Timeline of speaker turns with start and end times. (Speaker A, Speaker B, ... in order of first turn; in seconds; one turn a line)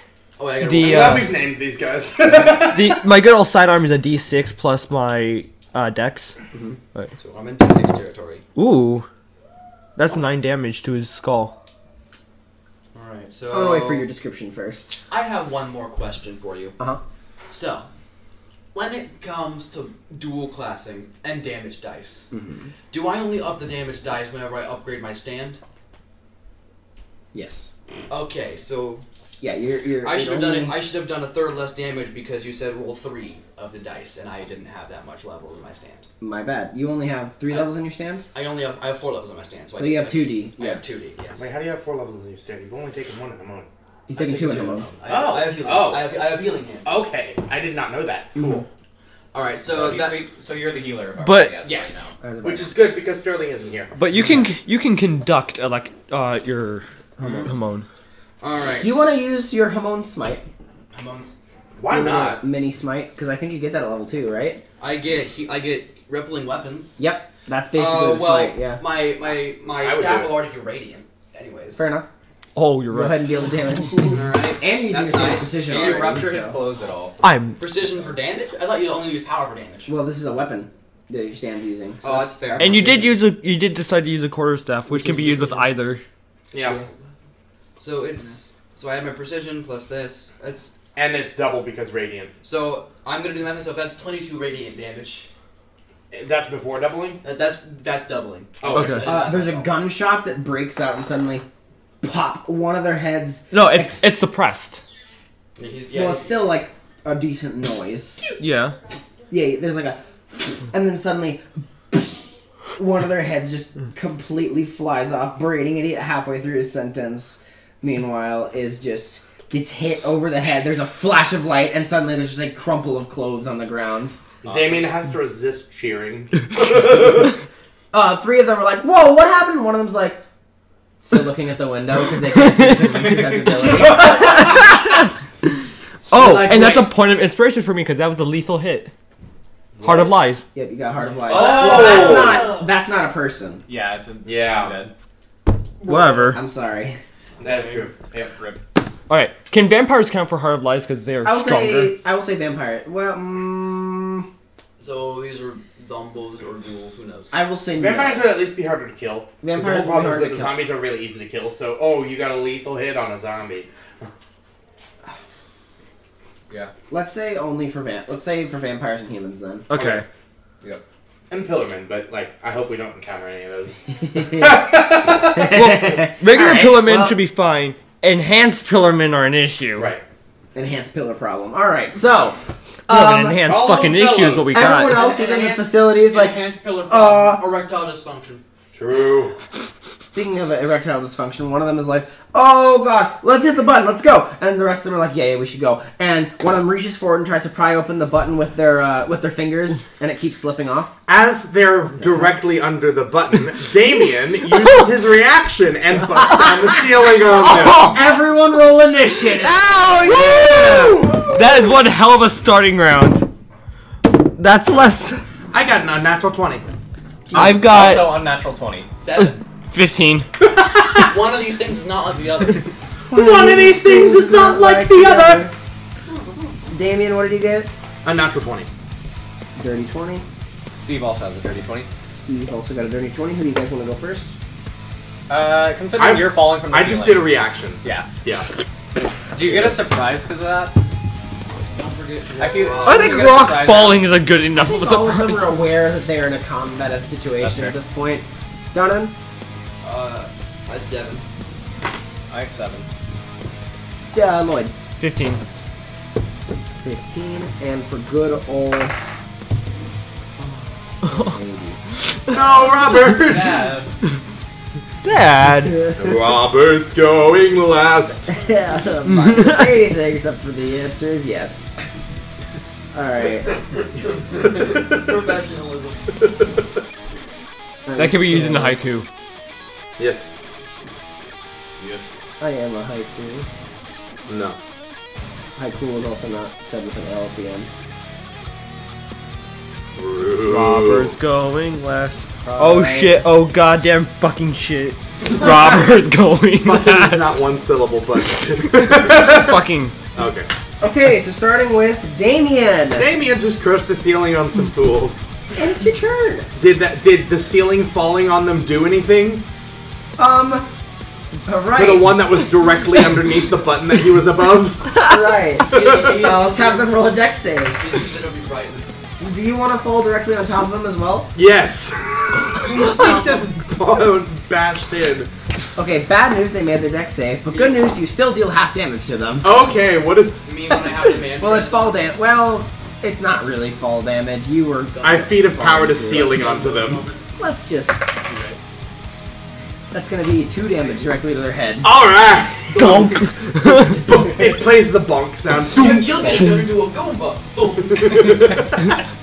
Speaker A: 0.4-1.4
Speaker B: 0.6-1.3
Speaker C: 0.8-3.0
Speaker B: 2.4-6.3
Speaker A: 7.2-8.4
Speaker B: 8.6-9.1
Speaker B: 10.0-11.6
Speaker A: 12.9-14.1
Speaker D: 13.5-14.9
Speaker A: 15.1-16.7
Speaker A: 17.5-17.9
Speaker A: 18.7-22.3
Speaker D: 22.3-22.7
Speaker A: 22.9-25.6
Speaker D: 27.3-27.7
Speaker A: 28.1-29.0
Speaker D: 29.4-30.8
Speaker A: 30.0-36.0
Speaker D: 36.2-38.2
Speaker A: 38.3-41.5
Speaker D: 39.8-40.8
Speaker C: 41.4-43.7
Speaker D: 44.1-44.9
Speaker A: 44.2-46.9
Speaker C: 44.5-46.2
Speaker C: 46.8-48.6
Speaker D: 48.3-48.6
Speaker A: 49.3-50.2
Speaker E: 49.7-52.1
Speaker B: 51.2-51.6
Speaker C: 51.6-53.9
Speaker D: 52.2-52.7
Speaker B: 54.0-57.9
Speaker A: 57.2-57.5
Speaker A: 58.4-59.0
Speaker D: 58.8-60.4
Speaker A: 60.9-61.4
Speaker C: 61.8-62.4
Speaker D: 61.9-64.6
Speaker A: 64.8-67.0
Speaker D: 67.0-68.8
Speaker A: 67.7-71.8
Speaker C: 69.8-70.4
Speaker D: 71.8-72.1
Speaker B: 72.5-73.2
Speaker D: 72.9-76.6
Speaker A: 74.0-76.3
Speaker E: 75.6-77.2
Speaker B: 77.2-77.6
Speaker A: 77.6-79.9
Speaker D: 79.9-83.0
Speaker A: 82.0-83.1
Speaker B: 82.6-86.0
Speaker C: 86.5-86.8
Speaker A: 87.8-90.7
Speaker C: 91.0-92.3
Speaker A: 92.4-95.3
Speaker C: 96.1-97.2
Speaker A: 97.2-99.8
Speaker C: 98.6-99.1
Speaker B: 98.7-99.0
Speaker D: 99.0-101.5
Speaker D: 102.0-104.1
Speaker B: 103.5-104.8
Speaker A: 105.5-106.5
Speaker D: 105.9-108.3
Speaker B: 108.4-108.8
Speaker D: 109.3-124.2
Speaker C: 124.4-127.3
Speaker D: 127.9-130.2
Speaker D: 131.0-134.4
Speaker B: 133.8-135.1
Speaker D: 136.1-136.9
Speaker B: 136.1-138.9
Speaker B: 139.8-140.4
Speaker D: 139.8-143.6
Speaker A: 141.2-142.4
Speaker C: 141.3-142.4
Speaker E: 141.3-142.7
Speaker E: 143.7-144.9
Speaker C: 144.2-144.8
Speaker B: 145.8-146.4
Speaker D: 145.9-147.0
Speaker E: 147.4-148.6
Speaker C: 147.4-147.9
Speaker B: 149.1-151.9
Speaker D: 151.2-154.3
Speaker A: 154.8-157.3
Speaker D: 157.3-158.3
Speaker C: 157.8-164.1
Speaker D: 159.4-160.6
Speaker D: 166.9-169.7
Speaker B: 169.7-170.0
Speaker C: 169.7-170.0
Speaker C: 171.3-175.5
Speaker D: 174.2-174.6
Speaker D: 175.2-177.2
Speaker B: 175.5-179.9
Speaker C: 179.8-180.0
Speaker D: 180.5-183.5
Speaker B: 182.9-185.1
Speaker C: 183.4-184.8
Speaker D: 184.5-187.4
Speaker A: 184.9-188.4
Speaker C: 188.7-189.3
Speaker D: 190.1-201.0
Speaker C: 201.1-207.9
Speaker D: 206.2-206.8
Speaker B: 207.3-208.2
Speaker D: 207.8-209.6
Speaker B: 209.3-213.3
Speaker C: 210.1-211.4
Speaker B: 214.1-215.2
Speaker C: 215.5-216.6
Speaker D: 217.3-217.6
Speaker E: 217.3-218.9
Speaker B: 217.3-218.2
Speaker A: 219.0-219.4
Speaker B: 219.7-220.3
Speaker C: 220.6-221.0
Speaker A: 221.0-222.7
Speaker C: 223.1-225.4
Speaker D: 223.1-225.5
Speaker D: 226.7-227.7
Speaker C: 228.0-228.7
Speaker D: 229.6-230.2
Speaker E: 230.8-231.9
Speaker D: 232.0-234.3
Speaker E: 235.3-238.1
Speaker C: 235.9-238.6
Speaker E: 239.3-240.8
Speaker A: 241.7-243.3
Speaker E: 242.4-244.2
Speaker B: 242.8-245.6
Speaker D: 244.5-249.1
Speaker E: 247.4-247.7
Speaker A: 249.8-251.2
Speaker E: 252.3-252.9
Speaker D: 254.0-254.7
Speaker B: 255.0-255.4
Speaker D: 256.8-258.9
Speaker D: 261.0-261.8
Speaker C: 262.3-263.7
Speaker E: 263.1-263.9
Speaker B: 265.0-265.8
Speaker D: 265.6-266.0
Speaker C: 266.0-268.4
Speaker D: 268.3-271.7
Speaker B: 269.3-269.6
Speaker D: 272.9-273.6
Speaker C: 273.9-275.3
Speaker A: 274.3-276.1
Speaker C: 276.2-276.5
Speaker D: 277.8-278.8
Speaker B: 277.9-279.1
Speaker C: 280.0-280.3
Speaker D: 282.4-283.4
Speaker C: 284.3-284.6
Speaker D: 285.6-287.7
Speaker C: 289.9-291.1
Speaker B: 290.4-297.4
Speaker D: 292.4-293.3
Speaker C: 296.6-299.6
Speaker B: 298.6-299.9
Speaker C: 300.1-300.5
Speaker D: 300.8-303.1
Speaker C: 302.9-305.4
Speaker D: 305.5-306.5
Speaker C: 306.6-309.4
Speaker D: 310.2-310.7
Speaker D: 311.4-312.2
Speaker C: 311.7-315.1
Speaker D: 315.0-317.8
Speaker C: 315.7-316.2
Speaker A: 315.7-316.9
Speaker A: 317.8-318.9
Speaker D: 319.2-321.3
Speaker C: 321.3-325.3
Speaker A: 322.6-323.4
Speaker D: 325.8-329.6
Speaker A: 327.5-327.9
Speaker C: 329.4-330.6
Speaker A: 330.4-331.9
Speaker D: 331.3-336.5
Speaker A: 334.9-337.2
Speaker C: 335.0-337.1
Speaker D: 337.4-338.0
Speaker C: 338.3-338.6
Speaker D: 339.9-341.9
Speaker C: 341.8-346.5
Speaker B: 342.7-344.0
Speaker A: 345.7-348.6
Speaker C: 347.9-348.7